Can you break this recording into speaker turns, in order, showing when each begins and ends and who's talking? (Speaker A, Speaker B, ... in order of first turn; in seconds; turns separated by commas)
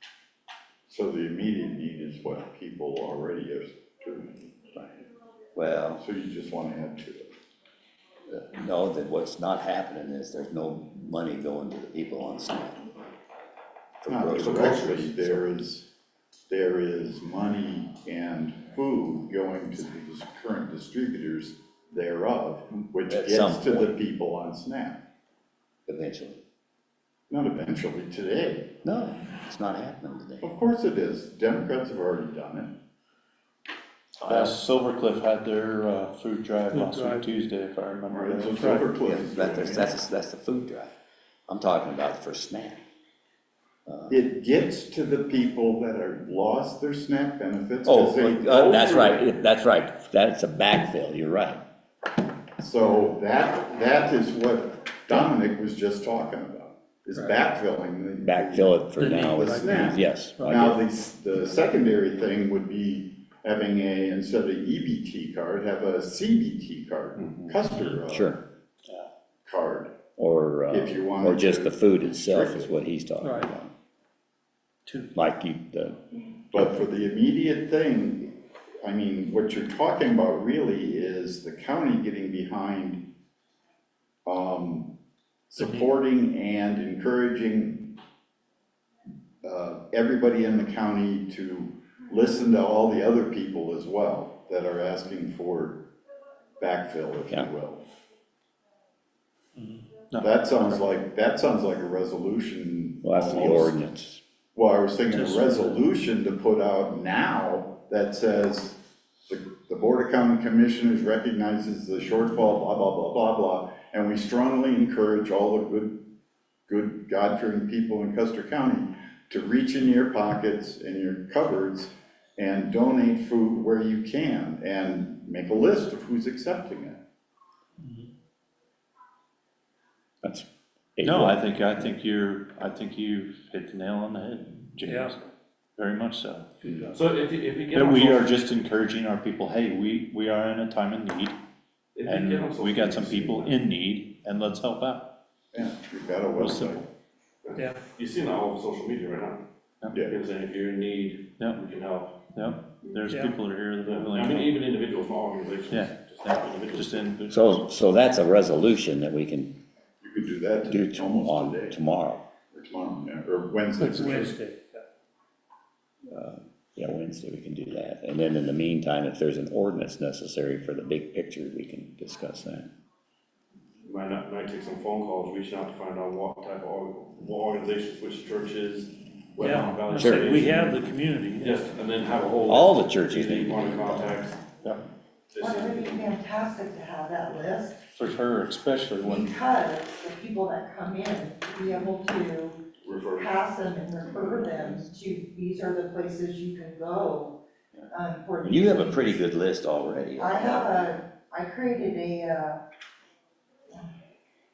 Speaker A: 0.9-4.5, Speaker B: 4.8-5.0, Speaker B: 5.5-6.0, Speaker A: 6.0-7.3, Speaker B: 8.3-12.9, Speaker B: 14.0-15.4, Speaker A: 14.1-15.9, Speaker A: 16.5-25.0, Speaker B: 23.0-23.9, Speaker B: 25.9-26.4, Speaker A: 27.3-28.8, Speaker B: 28.8-30.5, Speaker A: 30.4-32.8, Speaker B: 34.2-34.5, Speaker C: 34.2-38.8, Speaker D: 36.7-37.3, Speaker A: 38.1-39.9, Speaker B: 39.0-40.9, Speaker B: 41.5-42.8, Speaker B: 43.9-44.2, Speaker A: 44.1-49.3, Speaker B: 47.9-51.6, Speaker A: 52.6-68.4, Speaker B: 58.2-60.5, Speaker D: 59.0-60.8, Speaker B: 68.1-68.4, Speaker A: 69.5-69.9, Speaker B: 70.2-73.7, Speaker A: 70.7-72.8, Speaker D: 73.2-73.5, Speaker D: 74.9-75.1, Speaker B: 75.1-76.0, Speaker A: 76.5-83.0, Speaker A: 84.3-84.9, Speaker A: 85.5-88.0, Speaker A: 89.4-95.9, Speaker A: 96.6-97.8, Speaker C: 99.6-100.8, Speaker A: 100.2-103.8, Speaker B: 103.0-104.2, Speaker A: 104.5-116.1, Speaker D: 105.1-105.8, Speaker A: 116.7-127.0, Speaker B: 130.2-131.5, Speaker C: 131.0-136.5, Speaker D: 134.8-135.1, Speaker B: 136.7-136.9, Speaker E: 136.9-138.3, Speaker C: 137.7-141.4, Speaker E: 141.9-143.6, Speaker C: 142.1-145.1, Speaker A: 145.5-146.9, Speaker C: 146.4-146.8, Speaker E: 147.4-149.4, Speaker A: 149.9-150.2, Speaker E: 150.1-152.2, Speaker C: 152.3-154.6, Speaker D: 153.1-153.4, Speaker E: 153.9-157.2, Speaker C: 155.7-157.7, Speaker B: 157.3-159.6, Speaker A: 160.0-161.8, Speaker B: 160.6-162.2, Speaker A: 162.5-164.4, Speaker D: 163.8-164.8, Speaker B: 166.1-172.7, Speaker E: 173.8-180.8, Speaker D: 179.4-181.6, Speaker B: 179.9-180.4, Speaker E: 181.4-184.4, Speaker B: 182.4-184.2, Speaker E: 185.3-186.1, Speaker F: 185.4-187.9, Speaker C: 187.9-189.3, Speaker F: 189.0-199.2, Speaker E: 192.8-193.6, Speaker B: 198.4-200.8, Speaker F: 200.2-202.6